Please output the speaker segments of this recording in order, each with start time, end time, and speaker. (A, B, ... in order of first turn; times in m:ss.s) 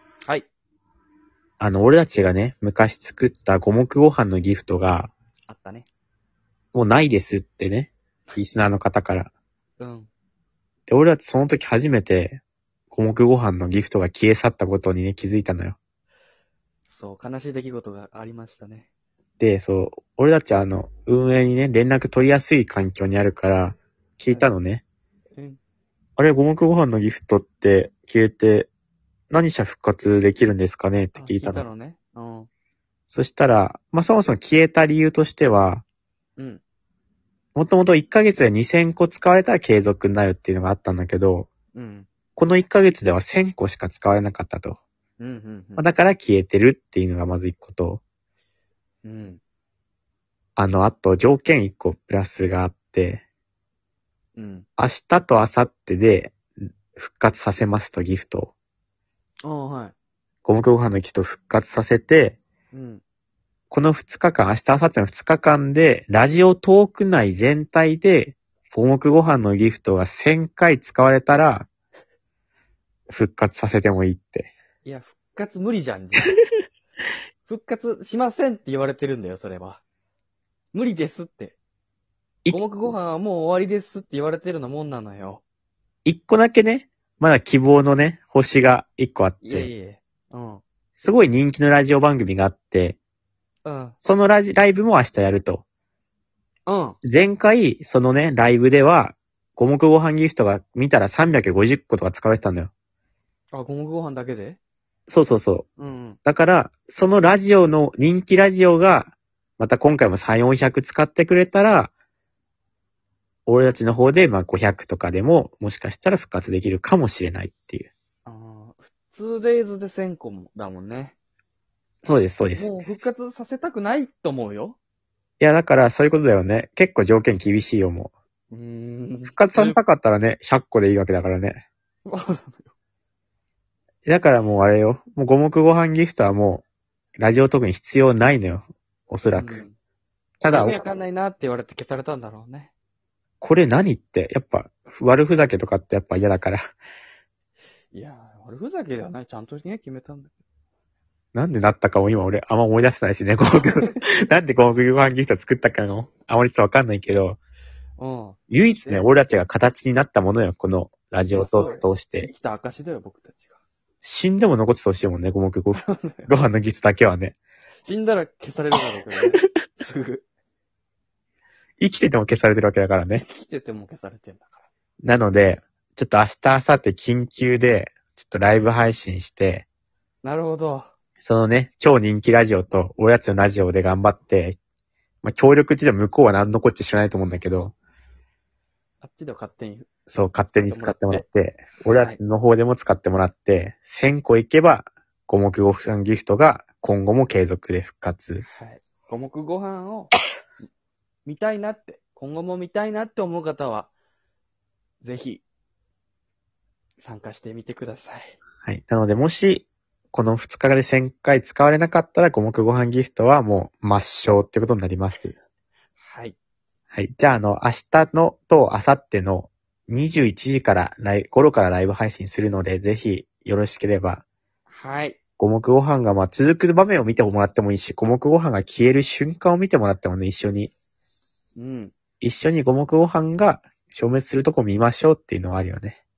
0:01.6-0:05.1 A
0:05.5-0:05.9 B
0:06.7-0:09.3 A
0:09.8-0:10.1 B
0:10.9-0:15.8 A
0:16.9-0:18.9 B
0:19.4-0:24.8 A
0:26.2-0:28.7 A
0:29.3-0:31.7 A
0:31.2-0:32.5 B
0:33.1-0:35.8 A
0:37.6-0:41.5 A
0:41.7-0:42.1 B
0:42.4-0:44.8 A
0:45.2-0:45.8 B
0:45.8-0:48.0 A
0:49.0-0:49.4 B
0:50.6-0:53.2 A
0:54.4-0:54.7 B
0:54.8-0:58.5 A
0:59.4-0:59.9 B
1:00.4-1:02.4 A
1:02.7-1:03.0 B
1:03.7-1:11.7 A
1:13.1-1:14.5 A
1:14.8-1:16.3 B
1:17.5-1:19.8 B
1:20.7-1:21.6 B
1:22.5-1:25.4 B
1:26.0-1:29.7 A
1:29.4-1:30.6 B
1:31.0-1:33.0 A
1:33.6-1:34.0 B
1:34.0-1:35.6 A
1:36.7-1:37.0 B
1:37.0-1:42.7 A
1:43.5-1:44.6 B
1:45.1-1:45.7 A
1:45.8-1:46.2 B
1:46.2-1:51.9 A
1:53.5-1:57.9 A
1:58.3-2:01.2 B
2:02.0-2:03.1 A
2:02.5-2:04.8 B
2:05.4-2:08.1 A
2:08.5-2:09.8 B
2:09.3-2:11.6 A
2:12.0-2:12.7 B
2:14.1-2:16.6 A
2:17.2-2:19.6 A
2:19.4-2:19.7 B
2:20.4-2:20.8 A
2:20.5-2:22.7 B
2:23.4-2:26.7 A
2:27.9-2:30.4 B
2:31.3-2:37.4 A
2:33.8-2:34.0 B
2:38.0-2:39.1 B
2:38.5-2:42.3 A
2:41.3-2:43.6 B
2:44.0-2:47.4 A
2:45.7-2:46.3 B
2:47.8-2:50.2 B
2:51.8-2:53.2 A
2:53.2-2:54.6 B
2:55.0-2:59.6 A
3:00.2-3:00.9 B
3:01.2-3:04.6 A
3:05.2-3:07.7 A
3:09.0-3:10.0 B
3:10.1-3:18.5 A
3:10.6-3:11.2 B
3:11.8-3:12.2 B
3:18.4-3:20.1 B
3:21.3-3:23.9 B
3:25.0-3:25.4 B
3:27.0-3:28.4 B
3:28.6-3:35.4 A
3:36.0-3:36.4 B
3:36.9-3:44.2 A
3:44.7-3:45.2 B
3:45.4-3:50.7 A
3:51.6-3:51.9 B
3:52.2-3:56.0 A